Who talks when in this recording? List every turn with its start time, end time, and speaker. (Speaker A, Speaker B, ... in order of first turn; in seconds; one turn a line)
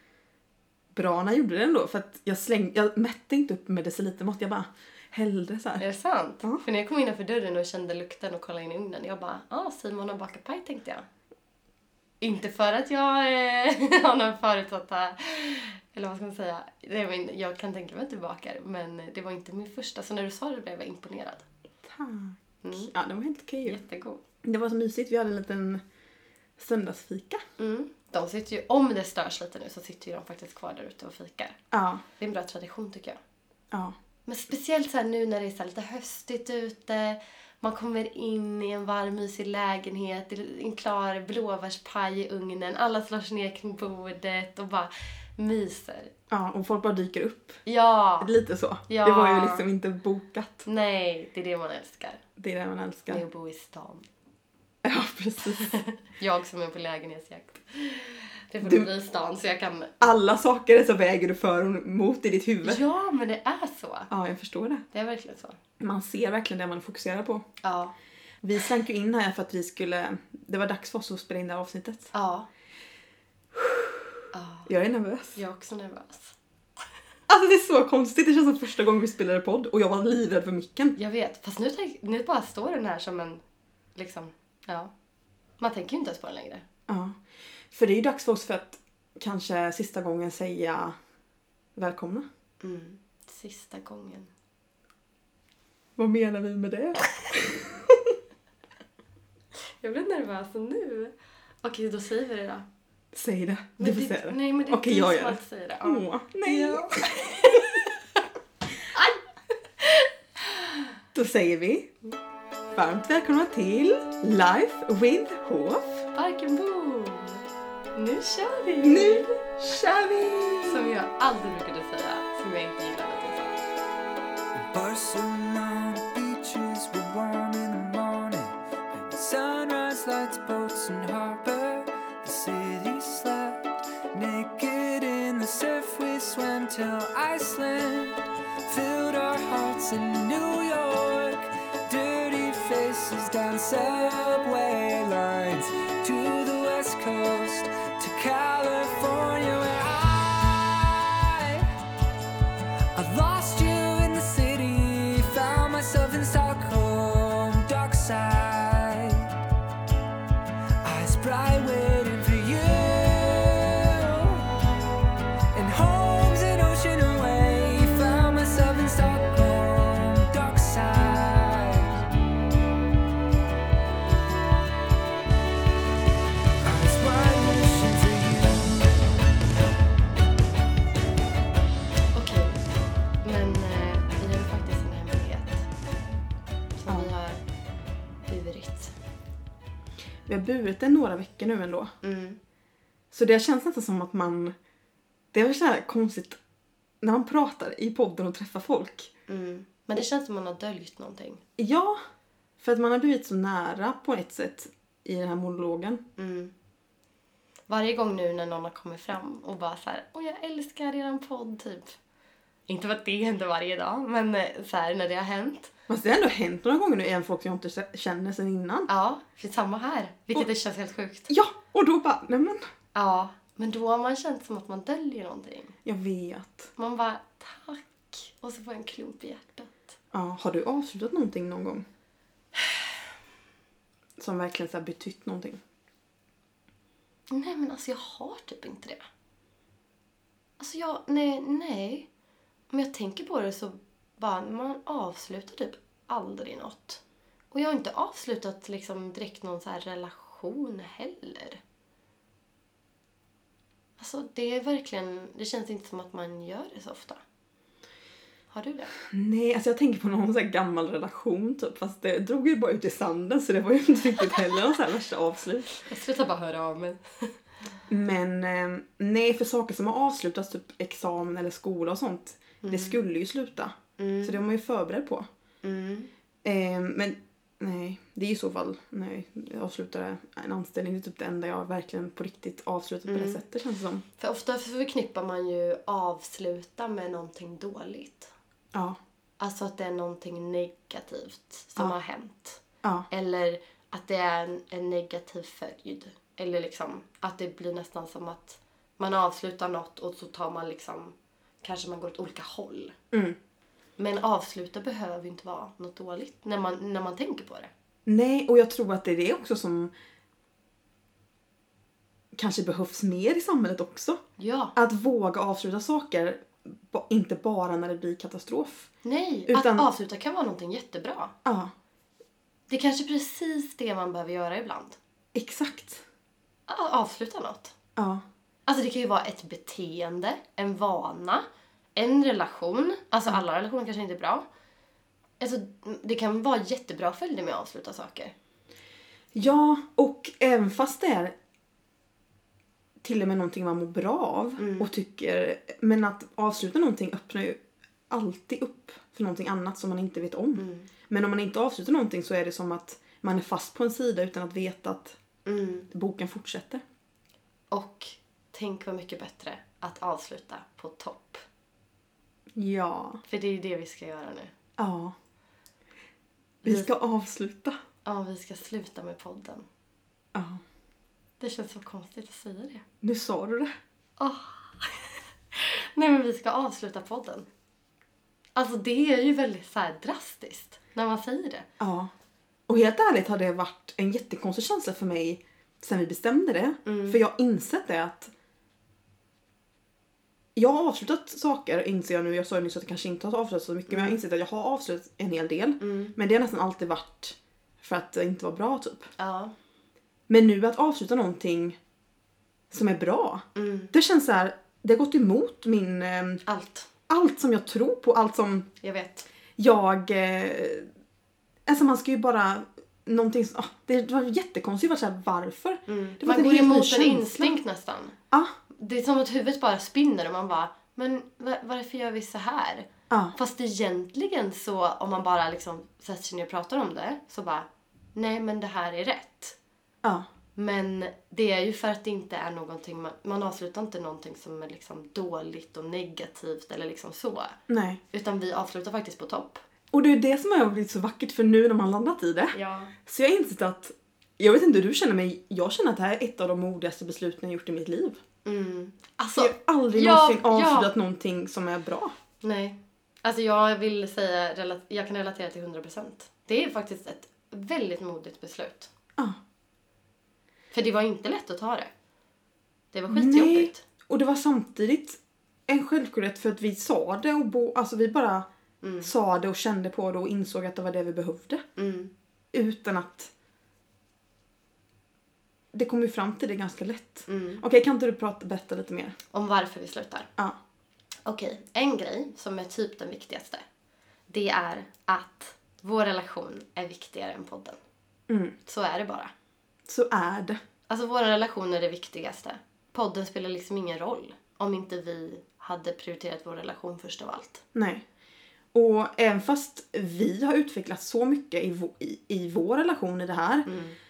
Speaker A: 0.9-5.8
Speaker B: 5.8-11.1
Speaker B: 12.2-21.4
Speaker A: 21.8-23.8
Speaker B: 22.6-22.9
Speaker B: 23.6-24.2
Speaker A: 24.4-25.8
Speaker A: 26.6-27.4
Speaker B: 27.6-31.6
Speaker A: 31.7-32.0
Speaker B: 32.2-33.2
Speaker B: 34.3-46.1
Speaker A: 46.3-47.6
Speaker B: 47.6-48.3
Speaker A: 48.2-50.6
Speaker B: 48.9-49.6
Speaker B: 50.6-52.2
Speaker A: 52.4-53.2
Speaker B: 53.1-54.1
Speaker A: 54.8-55.8
Speaker B: 55.6-60.0
Speaker A: 58.6-58.9
Speaker A: 60.0-62.8
Speaker B: 62.6-64.1
Speaker A: 64.1-64.8
Speaker B: 64.9-65.6
Speaker A: 65.8-67.4
Speaker B: 67.6-67.9
Speaker A: 68.4-72.1
Speaker B: 72.1-72.5
Speaker A: 73.5-74.0
Speaker B: 74.3-74.7
Speaker A: 74.7-75.4
Speaker B: 75.3-76.3
Speaker A: 77.3-81.0
Speaker B: 81.0-83.4
Speaker B: 83.9-84.9
Speaker B: 85.6-86.6
Speaker A: 86.9-87.2
Speaker A: 87.7-90.9
Speaker A: 91.8-92.2
Speaker B: 92.6-94.3
Speaker A: 96.0-98.1
Speaker B: 99.8-102.7
Speaker A: 103.1-106.8
Speaker B: 103.8-107.8
Speaker B: 108.9-109.2
Speaker B: 109.8-110.8
Speaker A: 111.1-111.9
Speaker A: 112.7-116.0
Speaker B: 116.1-119.4
Speaker A: 118.8-120.9
Speaker B: 120.7-123.6
Speaker C: 124.5-151.7
Speaker C: 152.9-159.3
Speaker C: 160.8-164.4
Speaker C: 165.5-172.0
Speaker C: 176.6-178.9
Speaker B: 182.1-182.6
Speaker B: 183.2-185.7
Speaker B: 186.8-187.4
Speaker B: 188.3-188.9
Speaker A: 190.2-191.9
Speaker B: 192.0-192.4
Speaker A: 193.1-194.6
Speaker A: 195.3-196.4
Speaker A: 197.0-199.1
Speaker B: 199.3-201.4
Speaker A: 201.6-202.0
Speaker A: 202.6-206.0
Speaker B: 206.2-206.5
Speaker B: 207.7-212.0
Speaker B: 212.7-215.7
Speaker A: 215.9-218.9
Speaker B: 218.9-221.3
Speaker A: 221.3-222.6
Speaker B: 222.9-225.7
Speaker A: 225.8-226.7
Speaker B: 226.8-229.7
Speaker A: 230.1-231.8
Speaker A: 234.2-235.6
Speaker B: 237.3-239.0
Speaker B: 240.6-242.1
Speaker B: 242.7-247.0
Speaker B: 247.5-251.6
Speaker B: 254.0-257.2
Speaker B: 258.5-258.9
Speaker A: 259.1-265.8
Speaker B: 265.8-267.3
Speaker A: 267.9-275.2
Speaker B: 272.6-273.0
Speaker B: 274.0-274.4
Speaker B: 275.6-276.1
Speaker A: 276.4-284.0
Speaker B: 283.1-283.4
Speaker B: 284.2-288.3
Speaker A: 288.7-289.0
Speaker B: 289.4-302.9
Speaker A: 303.1-303.4
Speaker B: 304.0-307.7
Speaker A: 308.1-309.9
Speaker A: 312.3-314.2
Speaker B: 314.4-314.7
Speaker A: 314.7-318.9
Speaker B: 319.0-321.3
Speaker A: 319.5-319.9
Speaker A: 321.4-321.7
Speaker B: 322.7-325.0
Speaker A: 325.3-326.0
Speaker B: 326.7-327.7
Speaker A: 327.9-328.2
Speaker B: 328.6-334.4
Speaker B: 335.4-338.3
Speaker A: 339.3-341.3
Speaker A: 343.0-355.2
Speaker B: 344.6-344.9
Speaker B: 350.6-350.9
Speaker B: 355.4-355.9
Speaker A: 355.9-356.8
Speaker B: 357.7-361.4
Speaker A: 362.6-363.2
Speaker B: 363.3-364.5
Speaker A: 364.8-365.1
Speaker B: 366.6-366.9
Speaker A: 366.6-367.8
Speaker B: 368.0-369.6
Speaker A: 370.3-370.6
Speaker B: 371.4-372.8
Speaker A: 373.0-373.7
Speaker B: 374.2-377.4
Speaker B: 378.6-381.6
Speaker A: 381.8-382.1
Speaker A: 382.7-388.3
Speaker B: 386.8-387.2
Speaker A: 390.6-399.1
Speaker B: 393.9-394.2
Speaker B: 395.8-396.1
Speaker B: 399.2-399.5
Speaker A: 400.3-401.8
Speaker A: 402.7-406.4
Speaker B: 403.5-403.9
Speaker B: 406.4-406.9
Speaker A: 407.1-408.7
Speaker B: 408.8-409.3
Speaker A: 409.6-410.9
Speaker A: 411.7-417.6
Speaker B: 415.9-418.1
Speaker B: 418.8-429.6
Speaker A: 423.1-423.3
Speaker B: 430.6-437.6
Speaker A: 437.7-438.0
Speaker B: 438.1-439.6
Speaker A: 439.9-448.2
Speaker B: 442.5-442.9
Speaker B: 448.4-450.9
Speaker A: 449.4-452.1
Speaker B: 452.4-458.9
Speaker B: 460.7-461.9
Speaker B: 462.9-463.8
Speaker A: 463.1-468.5
Speaker B: 468.8-469.1
Speaker A: 469.0-471.6
Speaker B: 471.8-472.1
Speaker A: 472.5-473.3
Speaker A: 475.7-479.1
Speaker B: 477.3-477.6
Speaker B: 479.3-480.3
Speaker B: 481.2-483.6
Speaker B: 484.3-487.8
Speaker A: 488.3-488.5
Speaker B: 488.6-489.3
Speaker A: 489.9-490.6
Speaker B: 490.9-497.6
Speaker A: 497.7-498.0
Speaker A: 498.7-503.7
Speaker B: 503.6-504.0